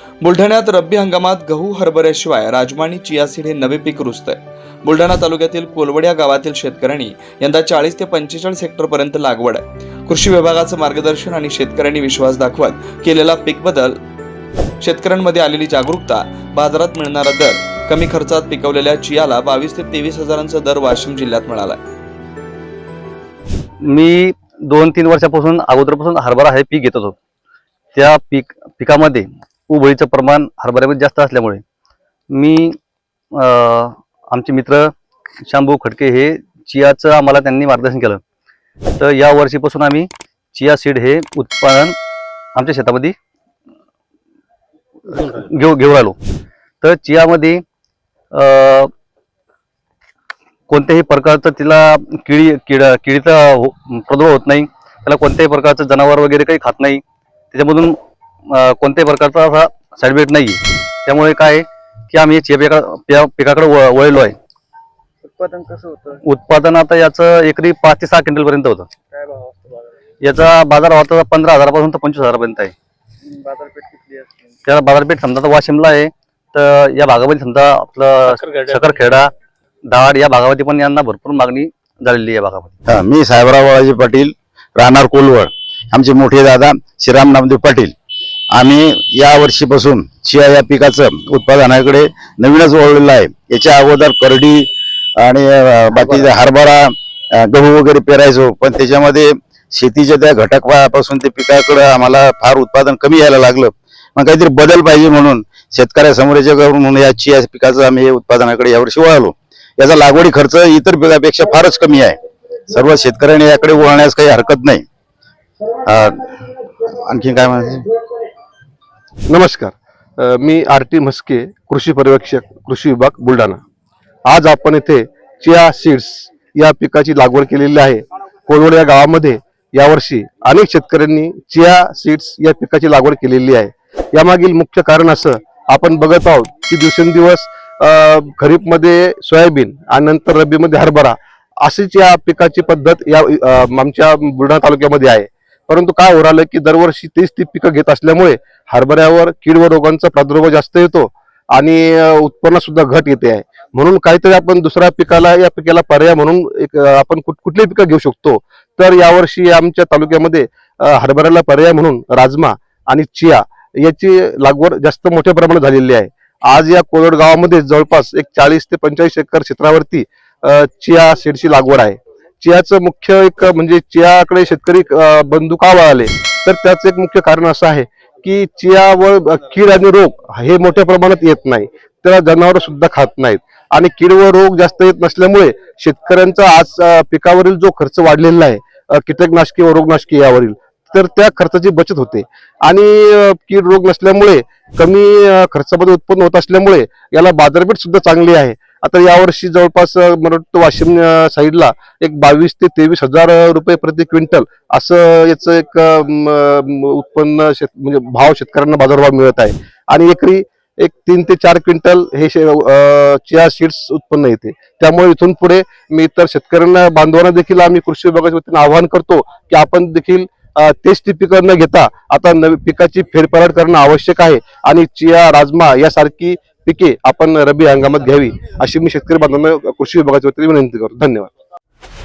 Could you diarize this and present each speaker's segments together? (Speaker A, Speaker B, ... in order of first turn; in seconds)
Speaker A: 0.2-14.0, 14.8-21.8
Speaker B: 23.8-27.1, 27.9-31.6, 32.3-32.8, 33.3-34.9, 35.4-38.2, 39.0-42.0, 42.5-43.1, 45.1-46.2, 46.8-47.6, 48.3-48.9, 50.7-64.3, 66.2-68.9, 70.2-72.7, 74.6-79.3, 79.9-82.8
Speaker C: 65.2-66.2, 69.1-69.9, 73.3-74.5
Speaker D: 82.9-87.9, 88.5-112.2, 112.7-114.8, 115.8-117.9
Speaker E: 119.3-123.6, 124.2-231.3